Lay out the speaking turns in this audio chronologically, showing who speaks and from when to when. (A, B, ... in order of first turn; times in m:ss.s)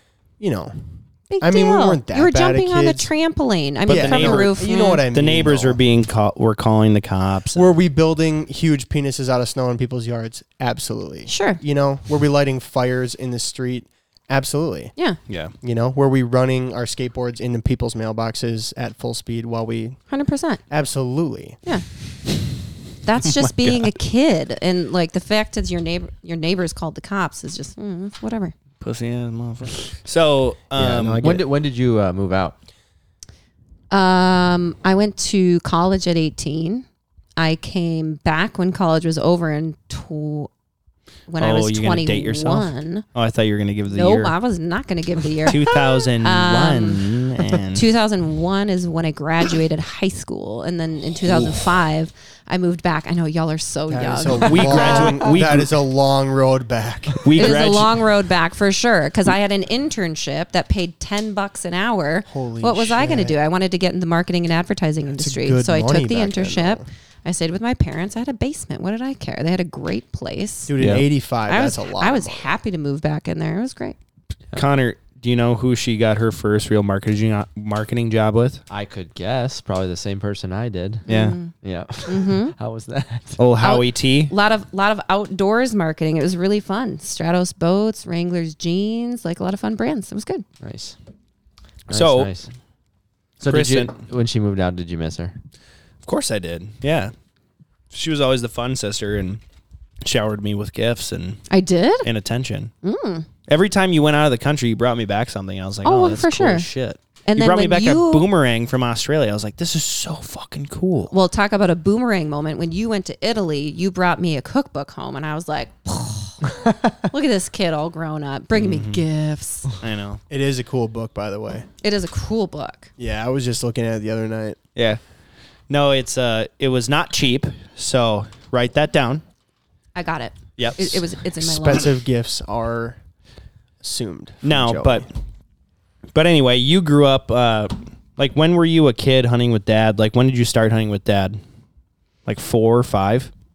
0:00.4-0:00.7 A
0:01.3-0:05.0 B
0:01.4-0:03.1 A
0:03.9-0:05.8 A
0:03.9-0:07.7 C
0:07.6-0:14.9 A
0:11.3-0:11.6 B
0:15.6-0:20.0 A
0:20.1-0:20.6 B
0:20.7-0:21.6 A
0:23.0-0:28.5 B
0:23.2-0:23.9 C
0:28.8-0:31.3 C
0:30.8-0:32.6 D
0:30.9-0:31.4 A
0:33.9-0:36.8 B
0:37.4-0:40.5 B
0:41.3-0:43.1 B
0:41.4-0:44.3 C
0:43.9-0:47.1 B
0:45.5-0:47.8 C
0:47.7-0:55.1 B
0:53.9-0:57.6 A
0:54.4-0:55.7 C
0:57.2-0:58.0 C
0:57.4-1:10.7 B
1:02.3-1:03.4 A
1:05.1-1:06.9 A
1:10.7-1:12.5 A
1:10.8-1:11.0 C
1:11.5-1:14.0 B
1:14.6-1:18.6 C
1:18.7-1:23.5 D
1:21.1-1:21.5 B
1:21.1-1:21.4 C
1:22.1-1:22.6 B
1:23.4-1:24.3 C
1:23.6-1:30.4 B
1:30.6-1:31.0 D
1:31.9-1:32.5 D
1:31.9-1:32.3 C
1:33.4-1:35.4 D
1:33.5-1:33.9 C
1:36.0-1:37.1 C
1:37.9-1:39.4 C
1:40.0-1:41.4 C
1:41.5-1:42.1 B
1:42.0-1:42.7 C
1:42.8-1:43.3 B
1:43.5-1:51.1 C
1:45.8-1:46.7 B
1:47.3-1:48.3 B
1:51.1-1:56.5 B
1:57.0-1:59.7 B
1:58.5-1:59.0 C
1:59.8-2:00.2 C
2:00.3-2:01.7 A
2:01.8-2:02.9 B
2:03.0-2:04.6 A
2:04.8-2:05.0 C
2:05.7-2:09.2 C
2:10.0-2:11.9 B
2:10.6-2:11.1 C
2:11.4-2:13.0 A
2:13.8-2:15.1 A
2:14.4-2:15.1 C
2:16.1-2:21.4 C
2:22.3-2:23.3 C